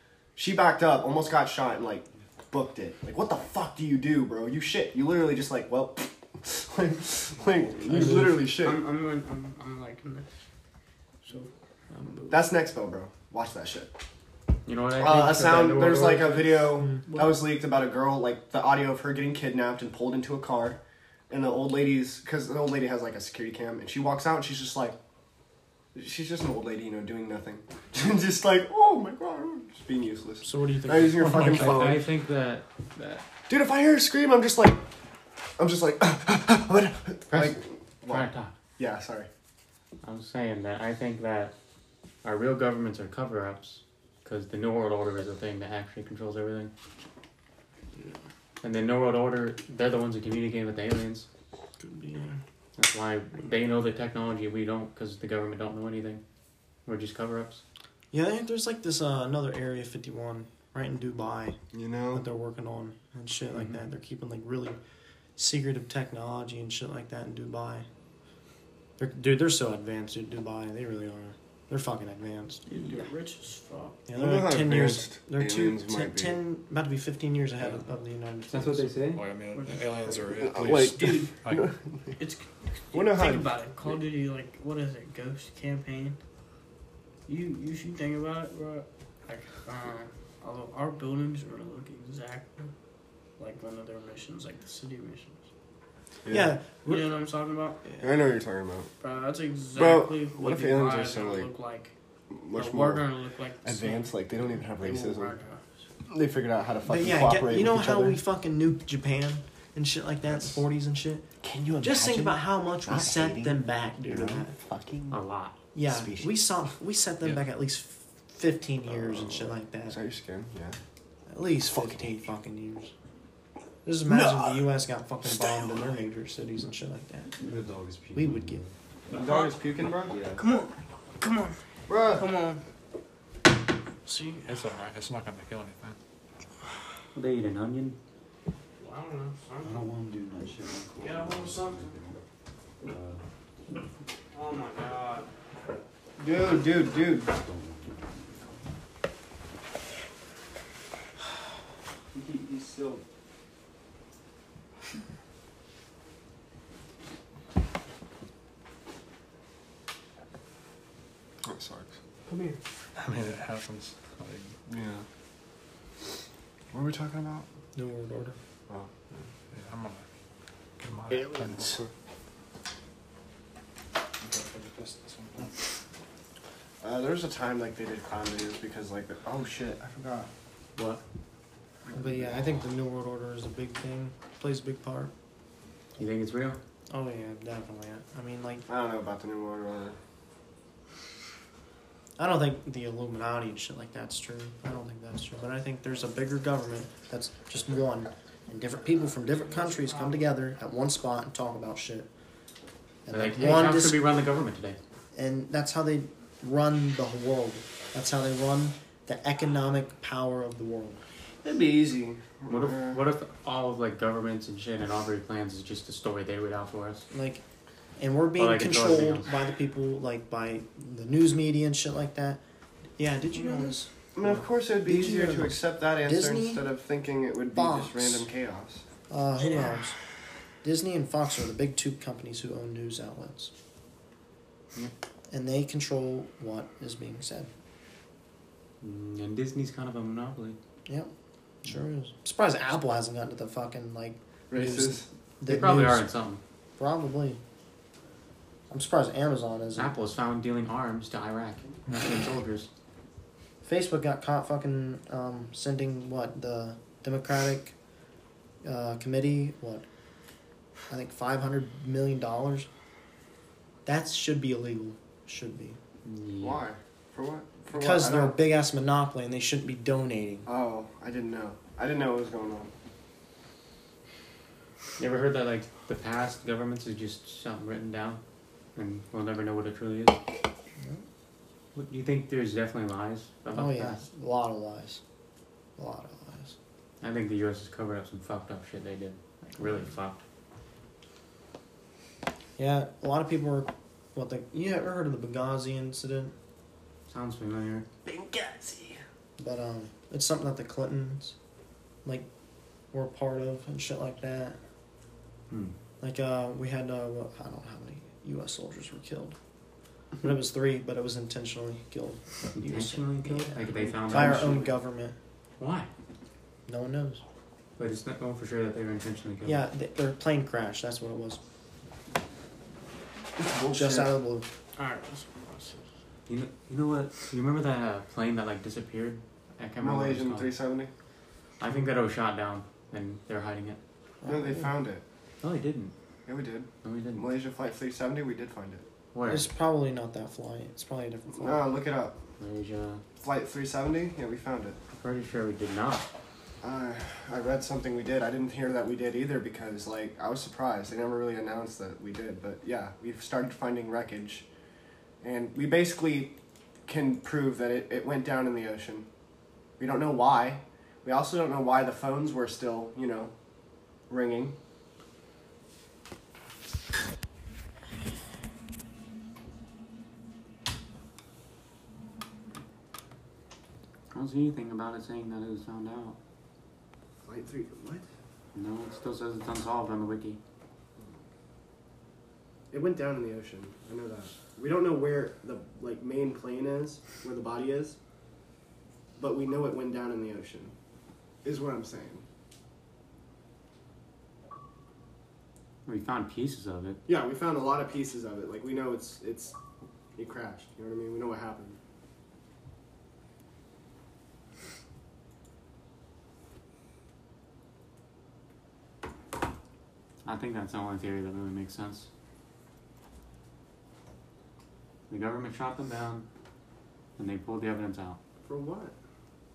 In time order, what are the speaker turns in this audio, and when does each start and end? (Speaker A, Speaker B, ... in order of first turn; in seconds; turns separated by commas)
Speaker A: 0.3-8.8, Speaker B: 7.9-8.2, Speaker C: 8.4-10.3, Speaker C: 11.2-12.5, Speaker A: 12.3-13.9, Speaker D: 14.7-16.7, Speaker A: 15.0-25.0, Speaker C: 17.0-17.4, Speaker A: 25.9-32.0, Speaker B: 30.4-31.9, Speaker D: 31.2-33.2, Speaker A: 33.5-34.8, Speaker A: 35.6-39.3, Speaker D: 37.3-38.5, Speaker D: 40.0-41.5, Speaker D: 42.2-46.7, Speaker D: 48.6-51.3, Speaker B: 51.8-52.4, Speaker D: 52.8-56.2, Speaker D: 56.9-57.6, Speaker B: 58.1-61.6, Speaker A: 61.7-62.2, Speaker B: 62.1-64.8, Speaker B: 65.4-67.9, Speaker B: 69.0-72.6, Speaker C: 72.7-74.0, Speaker B: 74.1-79.0, Speaker A: 74.2-76.4, Speaker D: 78.5-79.2, Speaker E: 79.1-81.7, Speaker C: 79.5-81.3, Speaker A: 80.4-81.8, Speaker C: 82.2-86.2, Speaker A: 82.9-83.5, Speaker C: 87.3-92.7, Speaker C: 93.4-95.5, Speaker A: 96.2-96.5, Speaker B: 96.3-97.1, Speaker C: 96.8-97.8, Speaker A: 98.0-98.9, Speaker C: 99.0-101.9, Speaker A: 99.7-101.5, Speaker A: 102.3-103.0, Speaker C: 102.5-105.8, Speaker A: 103.6-105.4, Speaker A: 106.1-108.2, Speaker B: 106.8-111.2, Speaker A: 110.3-110.6, Speaker A: 111.4-115.2, Speaker B: 111.8-114.5, Speaker D: 115.1-115.5, Speaker B: 115.7-120.0, Speaker A: 115.9-116.4, Speaker A: 118.9-120.8, Speaker B: 121.3-122.9, Speaker A: 121.7-122.2, Speaker B: 123.8-127.3, Speaker A: 124.0-124.7, Speaker A: 125.2-125.9, Speaker F: 127.4-129.2, Speaker B: 128.1-128.6, Speaker A: 129.1-130.2, Speaker C: 129.1-129.5, Speaker F: 130.1-130.4, Speaker C: 130.3-132.6, Speaker A: 131.9-132.2, Speaker C: 134.0-134.6, Speaker E: 134.5-136.0, Speaker D: 137.1-138.0, Speaker C: 138.8-139.9, Speaker F: 139.6-142.2, Speaker C: 141.0-142.0, Speaker F: 142.8-143.2, Speaker C: 144.3-145.3, Speaker A: 146.2-147.3, Speaker F: 146.7-148.5, Speaker A: 152.3-152.9, Speaker A: 161.4-161.9, Speaker C: 162.3-162.6, Speaker E: 163.0-164.6, Speaker A: 164.7-165.0, Speaker A: 166.7-167.5, Speaker B: 167.7-168.4, Speaker A: 168.7-169.2, Speaker E: 169.5-170.0, Speaker E: 170.8-171.8, Speaker A: 171.5-171.9, Speaker E: 174.2-175.5, Speaker A: 176.8-180.3, Speaker D: 180.8-181.0, Speaker B: 181.9-185.1, Speaker D: 186.0-186.6, Speaker B: 186.9-188.7, Speaker A: 188.7-190.0, Speaker B: 192.2-202.1, Speaker C: 199.5-200.2, Speaker B: 203.1-204.0, Speaker D: 203.1-204.8, Speaker B: 205.1-211.0, Speaker A: 211.4-213.0, Speaker D: 212.5-217.1, Speaker B: 217.1-217.4, Speaker B: 218.0-222.4, Speaker D: 218.3-219.3, Speaker B: 223.0-223.9, Speaker C: 223.3-223.7, Speaker A: 224.1-228.8, Speaker B: 224.8-226.7, Speaker B: 227.5-228.2, Speaker B: 229.1-230.0, Speaker C: 229.5-229.7, Speaker B: 230.6-233.5, Speaker B: 235.3-237.5, Speaker D: 238.8-240.6, Speaker B: 241.6-246.1, Speaker A: 244.5-245.1, Speaker D: 245.4-246.4, Speaker B: 246.8-247.4, Speaker B: 248.7-250.0, Speaker D: 249.8-252.7, Speaker B: 253.6-257.7, Speaker B: 258.6-259.9, Speaker B: 260.9-262.7, Speaker B: 263.8-265.8, Speaker D: 266.0-266.6, Speaker A: 266.4-268.4, Speaker B: 267.7-270.5, Speaker A: 270.5-272.7, Speaker D: 275.0-278.2, Speaker D: 278.8-280.2, Speaker B: 280.8-281.0, Speaker D: 281.7-284.0, Speaker B: 283.5-285.0, Speaker B: 285.8-286.6, Speaker D: 287.0-290.2, Speaker B: 292.6-296.3, Speaker D: 297.1-297.9, Speaker A: 298.0-299.0, Speaker B: 299.4-301.3, Speaker B: 302.9-304.6, Speaker D: 305.5-305.7, Speaker B: 306.0-309.4, Speaker B: 310.2-315.1, Speaker D: 312.6-314.8, Speaker D: 315.6-315.9, Speaker B: 316.7-317.2, Speaker D: 317.8-319.6, Speaker B: 319.4-321.4, Speaker A: 323.4-324.1, Speaker B: 323.7-324.5, Speaker C: 324.8-325.9, Speaker D: 326.3-330.5, Speaker A: 329.8-330.9, Speaker D: 331.6-333.8, Speaker B: 334.2-334.7, Speaker A: 334.2-335.0, Speaker D: 335.4-335.9, Speaker A: 336.2-338.9, Speaker D: 336.8-337.3, Speaker D: 339.1-339.5, Speaker B: 339.2-341.6, Speaker A: 341.4-342.2, Speaker D: 342.4-343.0, Speaker A: 343.2-344.8, Speaker D: 344.9-346.1, Speaker A: 346.6-354.5, Speaker A: 355.2-359.1, Speaker A: 359.8-363.3, Speaker A: 364.1-364.6, Speaker D: 374.1-376.2, Speaker A: 377.2-378.1, Speaker D: 378.5-380.4, Speaker A: 382.7-388.0, Speaker A: 389.2-390.7, Speaker A: 391.4-392.2, Speaker D: 395.9-397.0, Speaker A: 397.1-399.5, Speaker A: 400.1-401.8, Speaker D: 410.2-412.1, Speaker D: 415.1-416.2, Speaker D: 417.2-418.2, Speaker A: 418.4-418.9